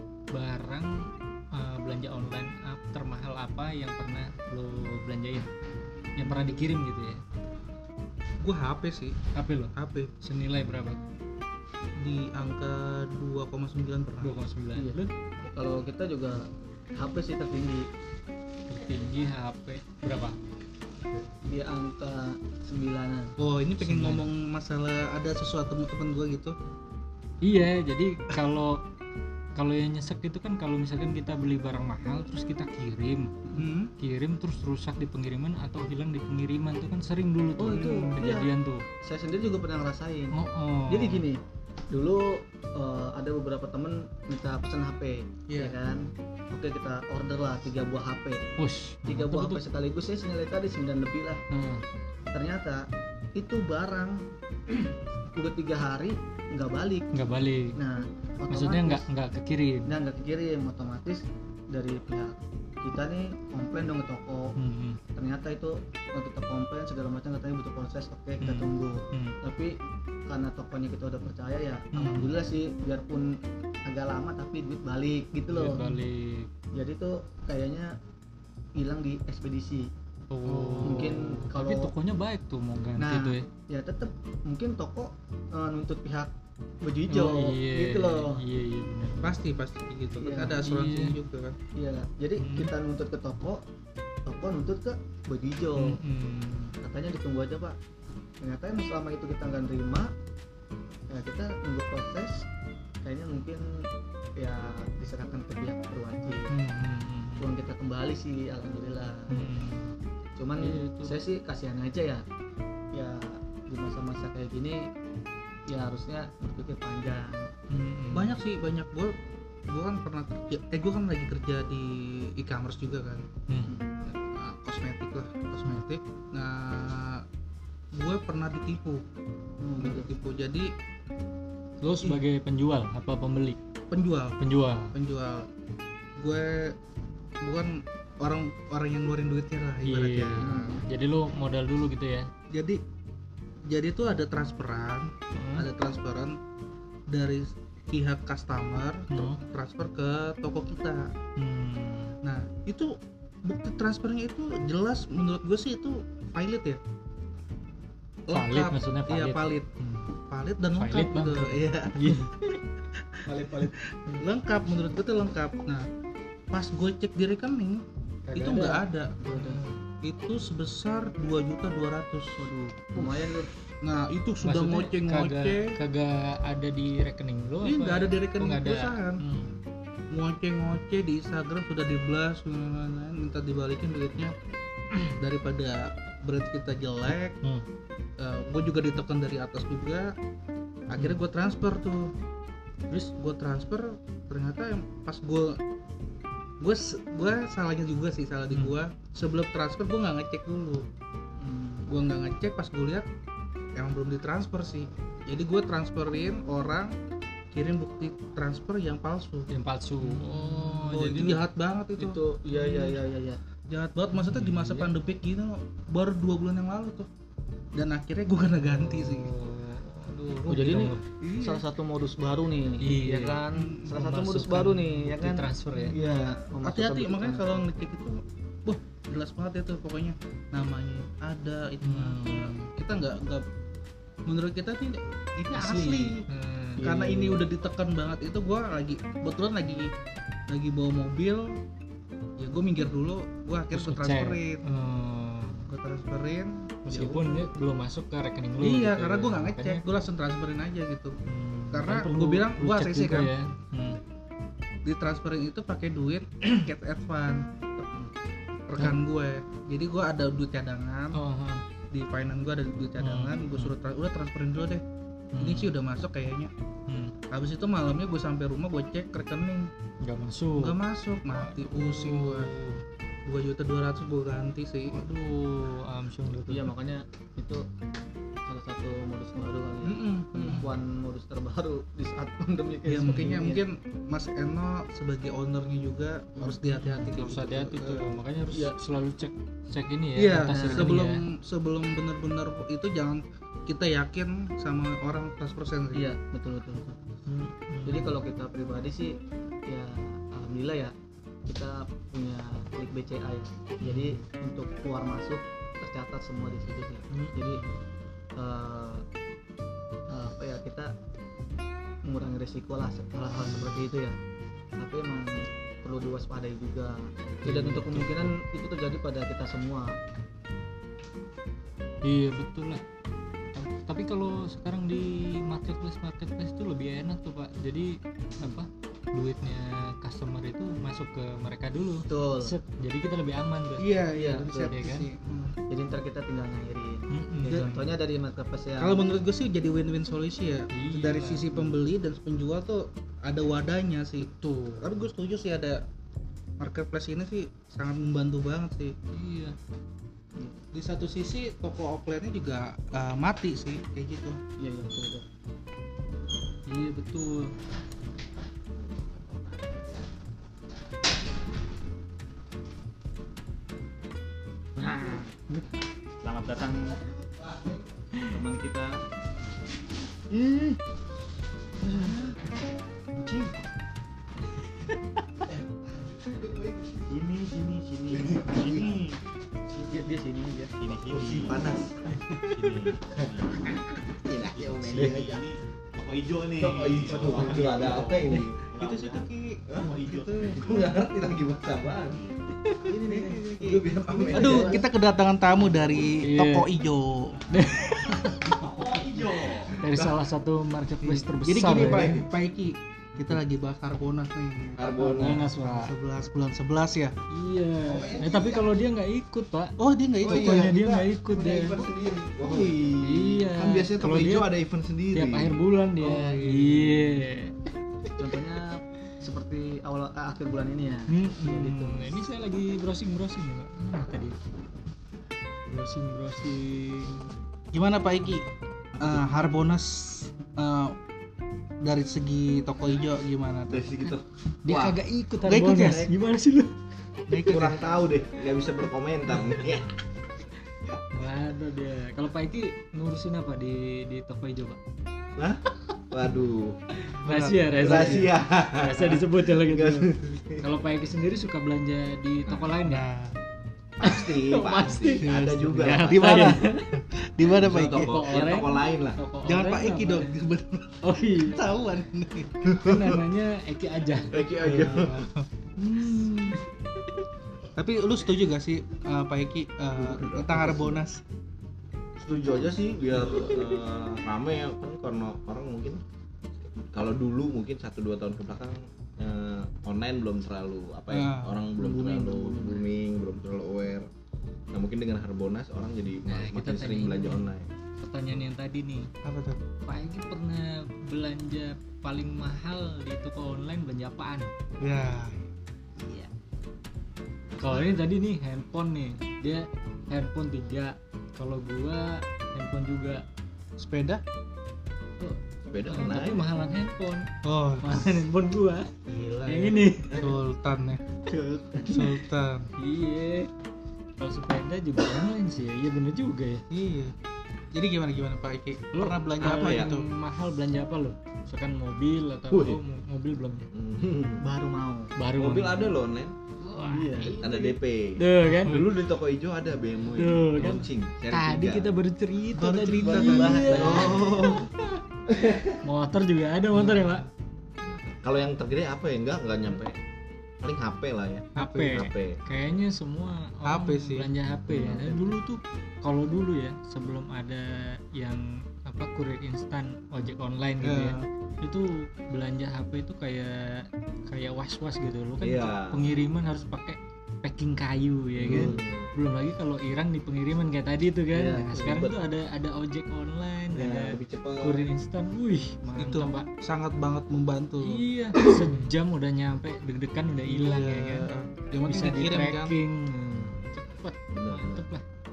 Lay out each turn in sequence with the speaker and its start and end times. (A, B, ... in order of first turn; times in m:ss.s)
0:00.3-0:05.5 A
0:06.2-0:07.2 A
0:08.4-0:09.2 B
0:09.3-0:11.0 A
0:09.7-0:10.1 B
0:12.0-0:14.4 B
0:14.2-0:15.1 A
0:15.5-0:17.9 C
0:18.7-0:20.4 A
0:21.4-0:23.3 C
0:23.4-0:26.6 B
0:23.8-0:24.3 A
0:27.4-0:28.8 A
0:29.6-0:33.3 A
0:33.5-0:33.9 B
0:34.0-0:38.8 A
0:37.6-0:38.5 C
0:39.0-0:40.4 C
0:40.3-0:41.2 A
0:40.9-0:48.5 C
0:45.5-0:45.8 B
0:48.6-0:49.6 A
0:49.0-0:51.4 C
0:51.5-0:51.8 A
0:52.3-0:57.1 C
0:57.1-0:57.8 A
0:57.8-0:59.0 C
0:58.5-0:59.9 A
0:59.8-1:04.5 C
1:04.6-1:05.0 A
1:05.1-1:09.8 C
1:08.4-1:09.4 A
1:10.3-1:15.9 C
1:11.9-1:12.3 A
1:15.5-1:16.5 A
1:16.7-1:18.0 C
1:18.8-1:19.9 C
1:20.3-1:23.4 A
1:20.5-1:21.1 B
1:20.8-1:21.9 C
1:23.0-1:26.3 C
1:26.8-1:28.4 C
1:27.1-1:29.4 A
1:29.2-1:31.6 B
1:30.2-1:30.6 C
1:30.6-1:31.2 A
1:31.7-1:33.6 C
1:32.4-1:32.7 A
1:34.2-1:36.0 C
1:35.8-1:36.7 A
1:36.8-1:37.8 C
1:38.4-1:40.1 C
1:41.1-1:42.4 C
1:43.0-1:43.8 C
1:44.4-1:46.5 C
1:46.5-1:47.5 A
1:47.4-1:49.4 C
1:49.3-1:49.9 A
1:50.4-1:52.2 C
1:50.6-1:51.2 A
1:52.9-1:54.9 C
1:55.7-1:57.5 C
1:57.7-1:58.4 A
1:58.1-1:59.1 B
1:59.7-2:03.3 B
2:03.5-2:03.7 A
2:04.0-2:07.2 B
2:07.9-2:09.0 B
2:09.6-2:10.1 C
2:09.8-2:10.7 B
2:11.8-2:13.6 A
2:13.9-2:14.4 B
2:14.4-2:14.9 A
2:14.9-2:15.5 B
2:16.2-2:16.8 B
2:17.4-2:20.7 B
2:19.8-2:22.3 A
2:20.4-2:20.8 C
2:22.5-2:22.8 B
2:23.7-2:26.4 B
2:25.3-2:25.7 A
2:27.1-2:31.1 B
2:29.1-2:29.4 A
2:31.4-2:32.2 A
2:32.2-2:36.8 B
2:38.3-2:39.7 B
2:38.3-2:40.1 A
2:40.3-2:45.9 B
2:40.7-2:42.4 A
2:43.2-2:43.7 C
2:46.5-2:47.8 B
2:48.3-2:49.6 C
2:48.3-2:49.7 A
2:48.3-2:49.2 B
2:50.0-2:52.5 B
2:52.4-2:53.5 C
2:53.8-2:55.8 B
2:54.4-2:59.5 A
2:57.6-2:59.2 B
3:00.1-3:04.3 B
3:05.1-3:07.4 B
3:08.2-3:10.2 B
3:10.9-3:12.1 B
3:13.1-3:15.6 B
3:16.6-3:20.9 B
3:18.5-3:18.8 A
3:21.4-3:21.8 C
3:21.9-3:23.1 B
3:23.8-3:27.0 B
3:27.5-3:29.5 B
3:29.5-3:31.4 A
3:30.0-3:33.0 B
3:32.0-3:33.4 C
3:33.7-3:37.1 B
3:34.1-3:34.9 A
3:37.7-3:39.3 B
3:38.6-3:41.0 A
3:40.1-3:41.6 B
3:40.5-3:47.6 C
3:42.8-3:46.0 A
3:43.5-3:43.9 B
3:45.9-3:53.4 B
3:51.8-3:52.7 A
3:54.2-3:56.2 B
3:55.5-3:56.8 A
3:56.8-3:59.9 B
3:56.8-3:57.4 C
4:00.5-4:01.6 B
4:02.4-4:04.6 B
4:03.7-4:05.7 A
4:05.7-4:07.4 B
4:06.8-4:09.8 A
4:08.6-4:11.2 B
4:11.2-4:14.0 A
4:11.7-4:13.3 B
4:14.8-4:17.5 B
4:18.7-4:21.2 B
4:21.1-4:21.6 A
4:21.9-4:24.8 B
4:23.0-4:23.7 A
4:25.3-4:25.7 A
4:25.4-4:26.5 B
4:26.9-4:27.1 A
4:27.3-4:29.7 B
4:30.0-4:30.8 A
4:30.6-4:32.5 B
4:31.3-4:32.8 A
4:33.2-4:35.0 B
4:34.9-4:36.7 A
4:36.5-4:37.6 C
4:38.4-4:43.6 C
4:39.8-4:40.7 B
4:42.8-4:48.2 B
4:43.0-4:43.3 A
4:46.7-4:51.2 A
4:50.2-4:56.1 B
4:50.5-4:50.9 C
4:55.9-4:57.0 C
4:57.3-4:58.2 A
4:57.8-4:59.2 C
4:59.7-5:00.9 C
5:01.5-5:07.6 C
5:03.8-5:04.2 A
5:07.1-5:07.8 A
5:08.4-5:09.0 C
5:10.1-5:10.9 C
5:12.0-5:14.2 C
5:14.8-5:20.0 C
5:17.4-5:18.4 A
5:22.0-5:22.8 A
5:23.5-5:33.9 A
5:32.1-5:32.5 C
5:33.8-5:35.6 B
5:34.1-5:34.7 C
5:34.7-5:35.1 A
5:35.7-5:39.0 C
5:37.1-5:37.8 A
5:37.5-5:37.8 B
5:38.8-5:45.8 B
5:40.7-5:41.7 A
5:44.2-5:44.9 A
5:46.6-5:49.0 B
5:49.1-5:49.6 A
5:50.4-5:50.6 C
5:50.7-5:54.4 B
5:54.6-5:55.2 C
5:56.7-5:57.5 A
6:04.8-6:05.6 C
6:06.4-6:07.0 C
6:07.5-6:09.0 D
6:08.1-6:08.4 A
6:10.3-6:10.8 C
6:11.8-6:12.3 C
6:13.2-6:13.5 C
6:16.2-6:16.9 D
6:17.1-6:19.1 E
6:18.1-6:19.0 D
6:19.7-6:20.7 C
6:20.8-6:21.7 E
6:20.8-6:25.5 D
6:22.5-6:23.6 E
6:24.5-6:28.4 E
6:24.9-6:25.4 A
6:26.3-6:32.3 D
6:27.2-6:27.7 C
6:28.7-6:30.7 B
6:29.8-6:30.5 E
6:32.8-6:33.2 A
6:32.9-6:34.8 D
6:33.0-6:37.4 B
6:34.1-6:34.8 C
6:36.2-6:36.7 A
6:37.5-6:38.6 A
6:38.4-6:39.8 D
6:39.8-6:42.2 A
6:41.0-6:47.2 B
6:41.8-6:42.1 D
6:44.8-6:45.4 D
6:45.0-6:45.9 A
6:47.3-6:51.9 A
6:47.8-6:48.7 D
6:49.8-6:50.9 B
6:50.2-6:55.6 D
6:52.4-6:52.7 B
6:53.0-6:54.5 A
6:55.1-6:57.6 A
6:56.0-6:57.3 B
6:58.2-7:02.1 C
7:01.1-7:04.4 A
7:05.7-7:07.3 A
7:07.7-7:11.0 B
7:11.8-7:13.9 B
7:13.7-7:15.0 D
7:14.6-7:16.8 A
7:15.4-7:16.1 B
7:17.3-7:18.0 B
7:17.4-7:19.9 D
7:21.1-7:24.8 A
7:25.4-7:26.8 D
7:26.9-7:33.0 A
7:27.2-7:28.3 B
7:27.8-7:30.7 D
7:32.5-7:33.4 B
7:34.0-7:36.6 D
7:34.0-7:37.0 A
7:35.2-7:38.4 B
7:37.5-7:39.2 D
7:37.6-7:40.4 A
7:39.4-7:42.7 B
7:41.0-7:41.6 A
7:42.6-7:43.2 D
7:42.8-7:44.4 A
7:44.3-7:45.3 D
7:44.5-7:46.6 B
7:47.7-7:51.2 B
7:50.0-7:51.0 D
7:52.2-7:56.0 D
7:56.6-8:04.1 D
8:01.1-8:01.5 B
8:01.8-8:02.8 C
8:04.7-8:07.7 D
8:06.3-8:09.1 A
8:09.2-8:09.6 B
8:09.8-8:14.5 A
8:14.8-8:15.4 B
8:17.6-8:23.2 A
8:23.8-8:24.2 B
8:25.2-8:27.3 A
8:25.7-8:26.5 D
8:27.4-8:28.1 B
8:27.8-8:28.9 A
8:29.1-8:31.0 B
8:29.4-8:30.3 A
8:31.3-8:32.1 A
8:31.9-8:32.7 B
8:32.8-8:33.5 A
8:34.2-8:36.6 A
8:36.7-8:37.1 B
8:37.7-8:40.0 B
8:38.9-8:43.7 A
8:39.4-8:40.0 D
8:42.5-8:42.8 D
8:43.7-8:44.4 D
8:44.4-8:45.1 C
8:45.2-8:46.0 A
8:45.4-8:46.3 D
8:46.6-8:47.5 A
8:46.8-8:47.4 C
8:47.3-8:51.9 D
8:48.2-8:48.8 A
8:50.1-8:54.3 A
8:52.5-8:54.3 B
8:52.8-8:54.5 C
8:53.6-8:55.8 D
8:55.8-8:57.3 A
8:56.8-8:57.2 B
8:57.9-9:00.0 D
9:00.6-9:02.4 D
9:01.6-9:02.1 B
9:01.6-9:26.5 A
9:03.6-9:04.3 B
9:04.7-9:05.2 D
9:10.8-9:11.2 B
9:15.4-9:16.1 D
9:18.4-9:19.1 D
9:18.5-9:18.8 C
9:21.3-9:21.9 C
9:21.8-9:22.2 D
9:23.7-9:24.9 D
9:26.0-9:28.7 B
9:27.8-9:31.3 A
9:30.4-9:32.8 B
9:31.8-9:35.0 A
9:34.3-9:34.8 D